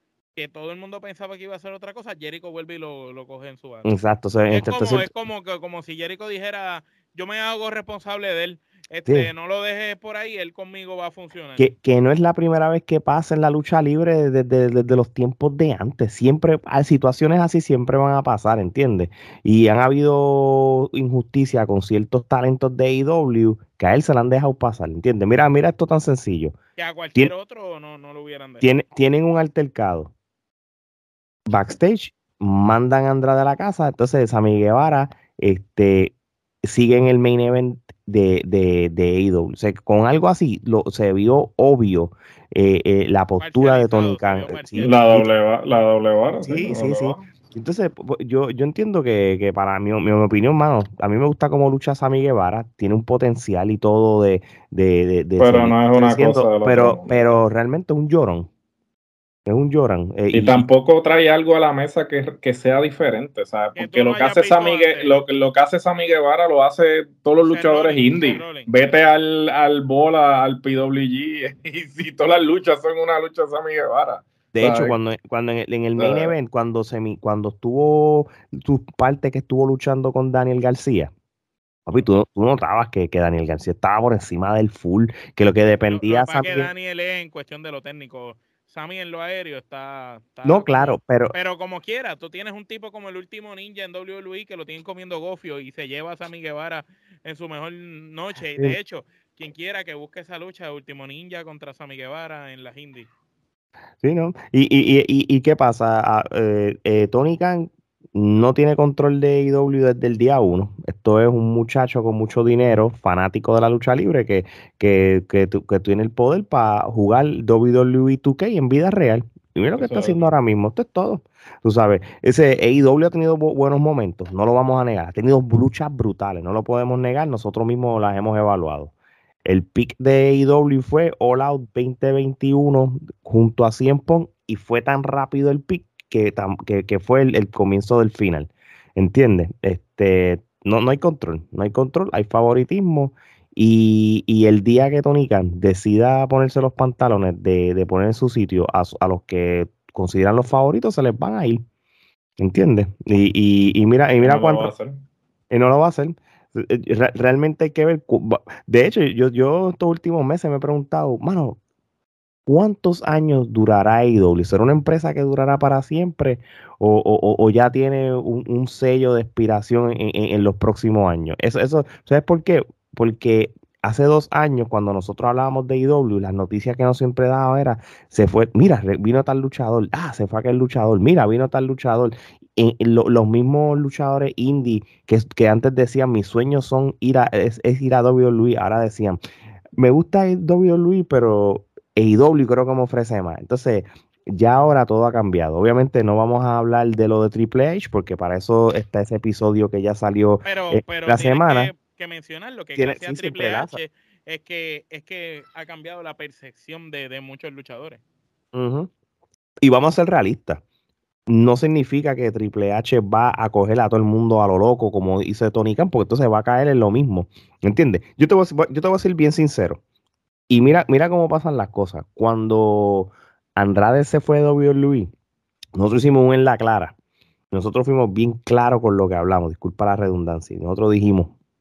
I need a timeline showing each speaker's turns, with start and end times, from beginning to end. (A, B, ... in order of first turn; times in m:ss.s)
0:00.3-0:03.9 A
0:03.8-0:05.1 B
0:04.5-0:11.6 A
0:11.6-0:26.5 B
0:26.8-0:28.7 A
0:28.6-0:30.1 B
0:31.5-0:45.3 B
0:43.4-0:45.0 A
0:44.8-0:47.2 C
0:46.4-0:58.5 B
0:55.4-0:57.4 C
0:59.4-1:00.7 B
1:00.3-1:15.0 C
1:03.8-1:05.2 A
1:07.4-1:08.7 A
1:14.5-1:21.1 B
1:16.0-1:16.3 C
1:21.8-1:26.7 B
1:25.9-1:43.1 A
1:30.4-1:31.3 B
1:44.0-2:08.9 B
1:59.8-2:00.3 C
2:09.4-2:31.6 B
2:32.4-2:34.7 B
2:34.2-2:35.0 C
2:35.5-2:41.6 B
2:42.5-3:09.2 B
3:09.8-3:21.7 B
3:20.4-3:28.0 A
3:22.8-3:23.8 B
3:28.5-3:28.9 B
3:29.6-3:30.6 B
3:31.3-3:39.8 B
3:40.5-3:45.1 B
3:45.7-3:46.9 B
3:47.5-3:51.3 B